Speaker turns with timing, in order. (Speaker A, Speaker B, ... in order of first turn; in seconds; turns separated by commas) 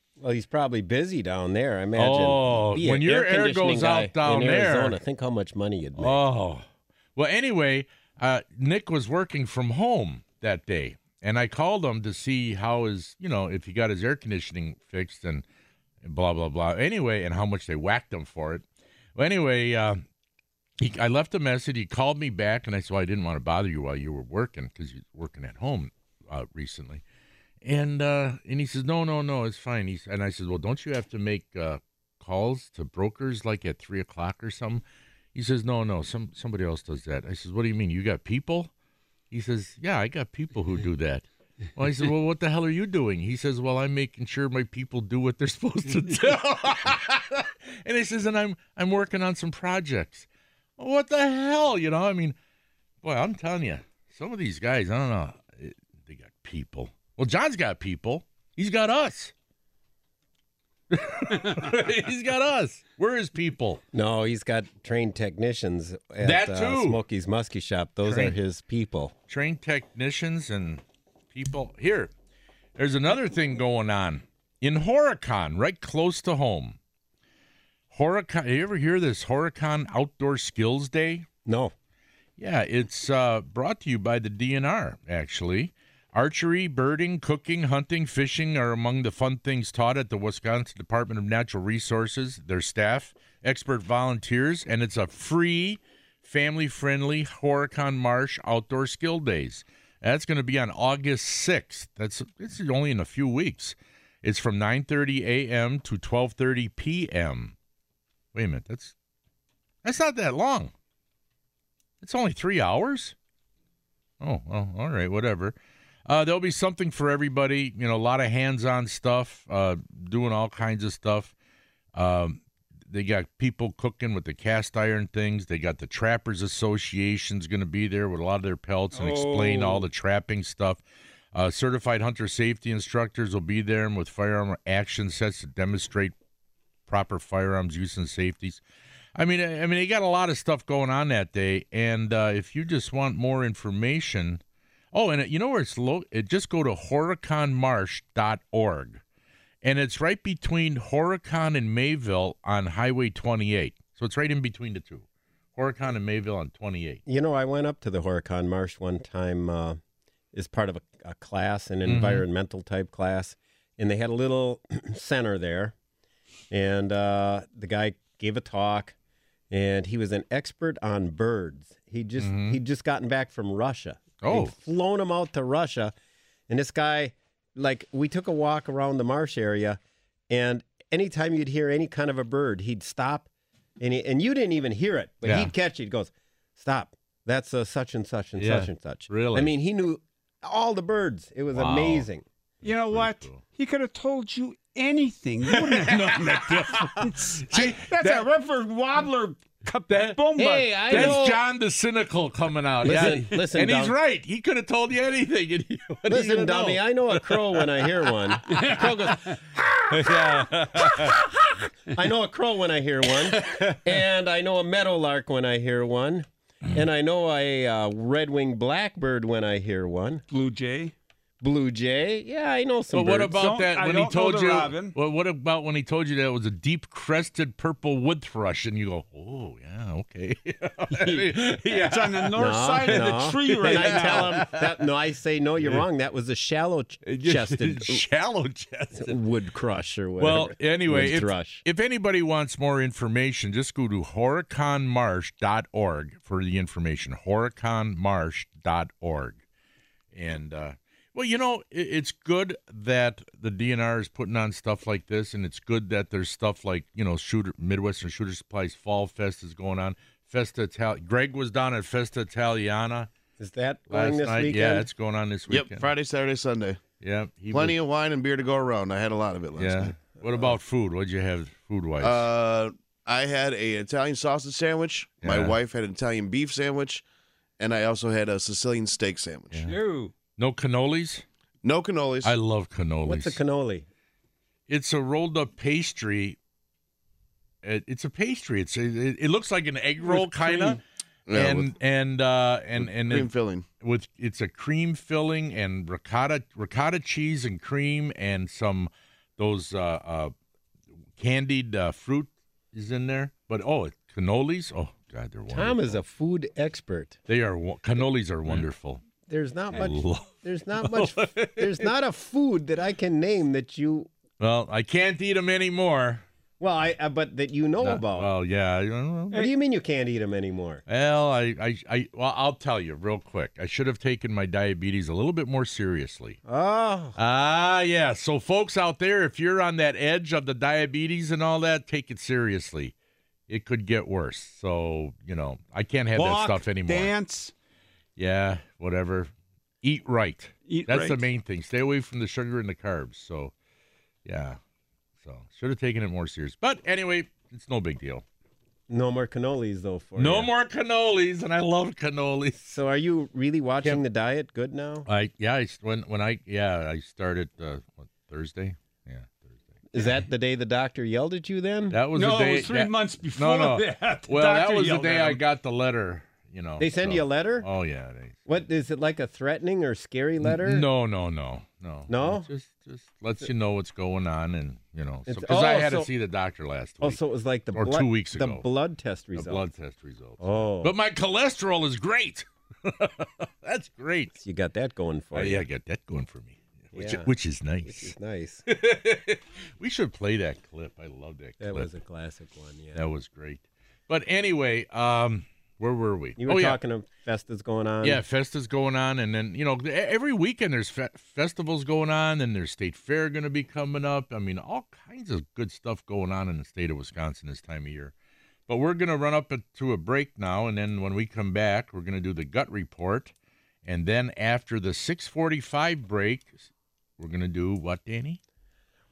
Speaker A: 0.2-6.2, Speaker B: 1.9-5.0, Speaker B: 6.0-6.6, Speaker B: 7.2-15.4, Speaker B: 16.0-18.6, Speaker B: 19.1-20.0, Speaker B: 20.8-27.0, Speaker B: 27.6-38.7, Speaker B: 39.3-50.2, Speaker B: 50.8-52.4, Speaker B: 53.0-59.3, Speaker B: 60.9-63.8, Speaker A: 63.9-69.1, Speaker B: 66.2-67.0, Speaker B: 68.0-68.3, Speaker B: 69.3-72.1, Speaker B: 72.8-76.8, Speaker B: 77.9-81.2, Speaker A: 81.5-81.7, Speaker B: 82.4-107.5, Speaker B: 108.3-108.9, Speaker B: 109.8-110.7, Speaker B: 112.0-113.1, Speaker B: 114.2-121.3, Speaker B: 121.9-130.8, Speaker C: 128.9-129.8, Speaker B: 131.3-136.1, Speaker B: 136.9-138.6, Speaker B: 139.2-144.4, Speaker B: 144.9-149.0, Speaker B: 149.6-155.0, Speaker B: 155.6-157.0, Speaker A: 157.1-159.8, Speaker A: 160.3-165.7, Speaker B: 161.8-162.2, Speaker A: 166.5-168.9, Speaker A: 169.5-175.9, Speaker B: 172.2-172.6, Speaker B: 174.2-174.5, Speaker A: 176.5-183.3, Speaker A: 183.8-192.2, Speaker B: 185.2-185.5, Speaker B: 188.4-189.5, Speaker B: 191.5-192.1, Speaker B: 192.6-193.4, Speaker C: 192.6-201.2, Speaker B: 195.5-198.3, Speaker B: 199.9-207.9, Speaker A: 200.4-201.4, Speaker A: 202.8-203.9, Speaker A: 206.1-209.4, Speaker B: 208.5-208.9, Speaker C: 208.5-208.8, Speaker B: 209.9-211.2, Speaker A: 210.0-211.2, Speaker A: 211.9-220.2, Speaker B: 213.3-213.8, Speaker C: 220.3-220.9, Speaker A: 221.4-223.4, Speaker B: 222.9-234.6, Speaker C: 223.3-224.9, Speaker C: 230.9-234.5, Speaker A: 232.3-238.0, Speaker B: 237.1-239.2, Speaker A: 238.9-241.6, Speaker B: 240.2-249.4, Speaker B: 250.1-263.1, Speaker A: 263.4-264.9, Speaker B: 263.9-265.9, Speaker D: 265.5-266.8, Speaker B: 267.0-267.8, Speaker D: 267.5-270.0, Speaker B: 269.6-272.2, Speaker D: 272.0-277.0, Speaker B: 275.2-275.6, Speaker D: 277.6-279.6, Speaker C: 279.6-280.1, Speaker B: 280.4-281.2, Speaker D: 281.6-282.3, Speaker B: 282.2-283.4, Speaker A: 283.0-283.9, Speaker B: 284.7-286.4, Speaker B: 287.6-290.8, Speaker C: 290.0-290.8, Speaker D: 291.3-291.7, Speaker B: 291.3-293.3, Speaker D: 292.8-293.6, Speaker B: 293.8-300.3, Speaker B: 301.2-306.0, Speaker A: 305.5-307.2, Speaker B: 307.3-309.0, Speaker A: 309.3-314.1, Speaker B: 309.7-311.9, Speaker B: 314.4-316.2, Speaker A: 316.6-318.3, Speaker B: 317.8-319.5, Speaker A: 319.3-320.8, Speaker B: 320.9-326.4, Speaker A: 326.4-327.1, Speaker B: 327.2-332.9, Speaker B: 333.5-337.1, Speaker C: 336.1-337.5, Speaker B: 338.2-339.3, Speaker B: 339.8-343.5, Speaker C: 340.7-341.2, Speaker B: 344.2-344.6, Speaker B: 345.2-348.2, Speaker A: 348.9-350.5, Speaker B: 350.2-352.8, Speaker A: 352.7-355.1, Speaker B: 355.1-359.5, Speaker A: 359.9-362.0, Speaker B: 361.9-368.4, Speaker C: 362.1-365.4, Speaker A: 366.8-367.7, Speaker A: 368.5-370.9, Speaker B: 370.4-377.2, Speaker A: 372.1-372.5, Speaker A: 375.3-376.1, Speaker A: 377.0-379.6, Speaker B: 377.7-378.6, Speaker B: 379.3-384.3, Speaker A: 380.4-380.9, Speaker A: 384.4-385.7, Speaker B: 385.3-388.1, Speaker A: 386.9-387.3, Speaker A: 387.8-388.6, Speaker B: 388.7-391.9, Speaker A: 391.6-393.0, Speaker B: 392.9-396.8, Speaker A: 396.4-398.2, Speaker B: 398.0-408.1, Speaker B: 408.7-413.3, Speaker B: 413.8-416.7, Speaker B: 417.2-418.4